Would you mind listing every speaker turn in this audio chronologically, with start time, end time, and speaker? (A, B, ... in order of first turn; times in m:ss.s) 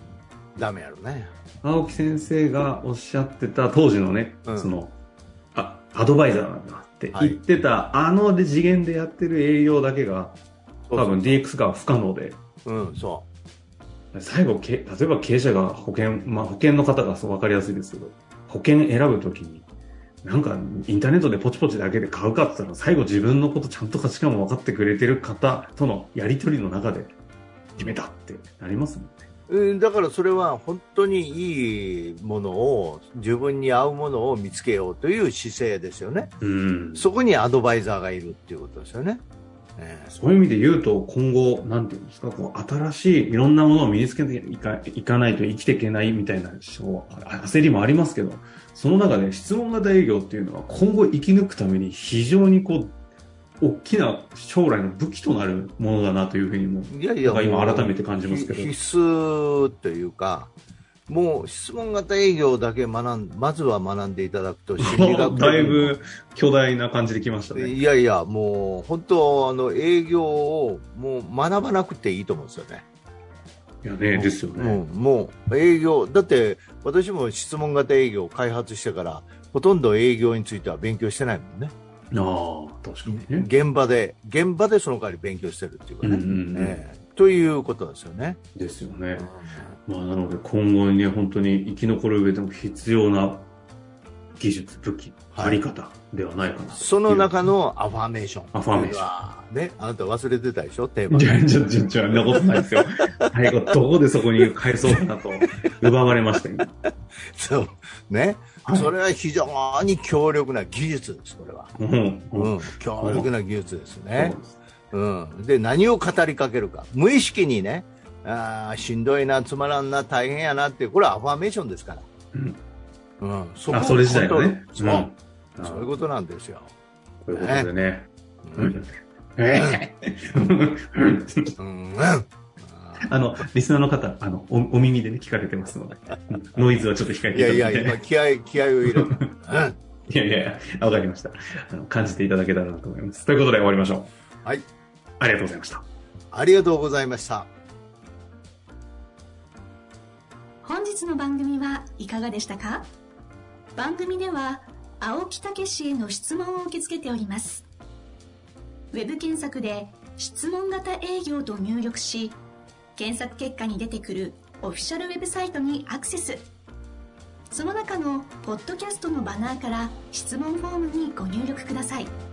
0:00.6-0:01.3 A
0:01.6-0:05.0 B
0:04.4-0:04.7 A
0:05.6-0:10.4 B
0:07.1-0:07.4 A
0:10.9-0:11.4 A
0:11.0-0:12.4 B
0:12.6-0:13.3 A
0:14.1-0:19.7 B
0:20.2-0:27.2 B
0:27.8-0:29.2 B
0:29.5-0:36.3 A
0:36.4-0:37.1 B
0:37.0-0:39.2 A
0:39.8-0:40.1 A
0:40.1-0:53.0 B
0:53.6-0:58.7 B
0:56.9-1:00.5 A
1:01.1-1:06.0 A
1:04.8-1:07.8 B
1:07.5-1:12.8 A
1:13.8-1:14.8 B
1:14.2-1:21.7 A
1:22.1-1:23.5 B
1:23.1-1:28.4 A
1:26.0-1:26.8 B
1:28.6-1:29.2 B
1:29.2-1:29.8 A
1:29.9-1:33.5 B
1:34.4-1:37.3 B
1:35.3-1:35.6 A
1:36.8-1:41.6 A
1:38.5-1:39.1 B
1:41.1-1:46.7 B
1:42.1-1:43.2 A
1:44.9-1:45.7 A
1:47.4-1:51.7 A
1:48.7-1:48.9 B
1:51.8-1:53.3 B
1:52.4-1:54.4 A
1:54.2-1:54.6 B
1:54.9-2:02.1 A
2:02.3-2:02.6 B
2:03.2-2:06.7 A
2:03.7-2:05.9 B
2:07.2-2:11.6 B
2:07.3-2:07.7 A
2:08.4-2:08.8 A
2:11.6-2:13.0 A
2:13.0-2:18.0 B
2:17.3-2:19.8 A
2:18.8-2:19.3 B
2:20.1-2:24.1 B
2:25.2-2:25.8 B
2:26.3-2:27.5 A
2:30.6-2:32.9 C
2:33.8-2:37.7 C
2:38.9-2:42.4 C
2:43.0-2:46.5 C
2:47.5-2:52.1 C